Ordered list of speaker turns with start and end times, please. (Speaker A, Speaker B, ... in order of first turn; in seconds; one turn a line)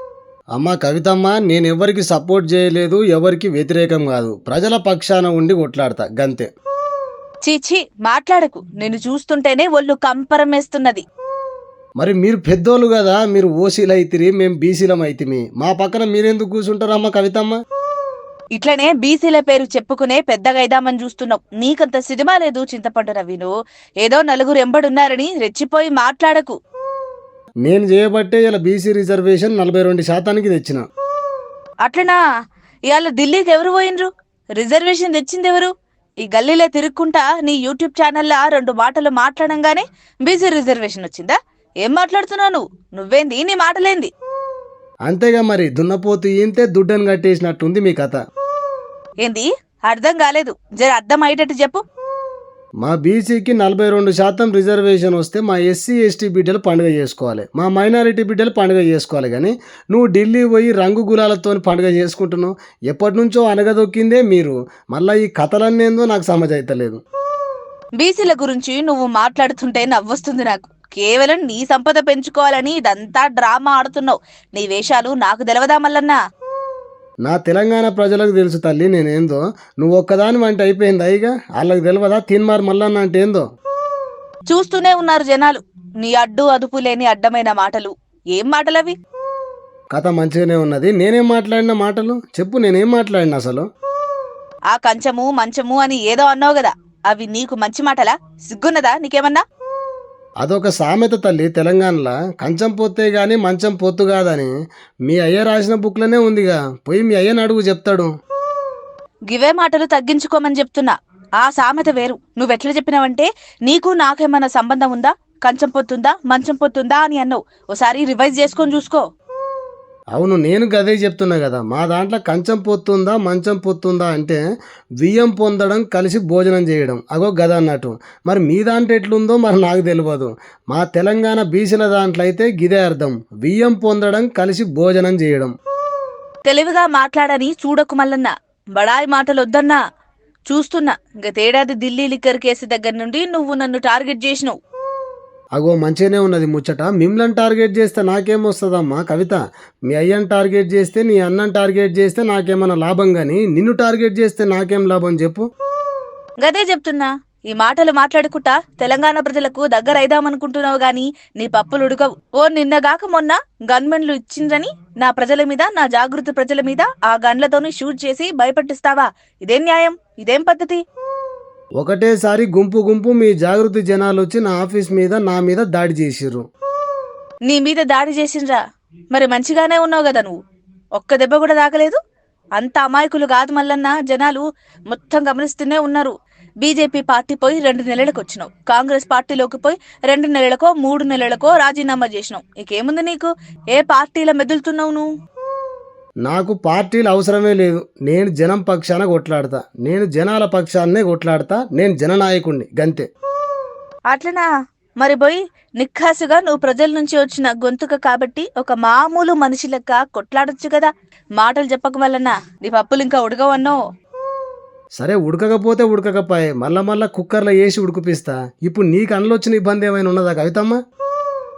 Speaker A: 0.6-6.5
Speaker B: 7.4-11.0
Speaker A: 12.0-17.6
Speaker B: 18.6-23.5
Speaker B: 24.0-26.6
Speaker A: 27.6-30.9
Speaker B: 31.8-32.2
Speaker B: 32.9-44.1
Speaker A: 45.1-48.2
Speaker B: 49.2-51.8
Speaker A: 52.8-67.0
Speaker B: 68.0-76.2
Speaker A: 77.2-83.4
Speaker B: 84.5-89.0
Speaker A: 89.9-93.7
Speaker B: 94.7-99.4
Speaker A: 100.4-104.5
Speaker A: 105.1-108.1
Speaker B: 109.3-119.0
Speaker A: 120.1-124.4
Speaker A: 125.0-135.5
Speaker B: 136.4-139.8
Speaker B: 140.5-144.6
Speaker A: 145.6-155.5
Speaker B: 156.4-170.8
Speaker A: 171.8-176.4
Speaker B: 177.5-178.6
Speaker B: 179.1-180.3
Speaker B: 180.9-182.0
Speaker B: 182.6-195.1
Speaker A: 196.2-203.1
Speaker B: 204.1-204.5
Speaker B: 205.0-213.8
Speaker A: 215.0-220.8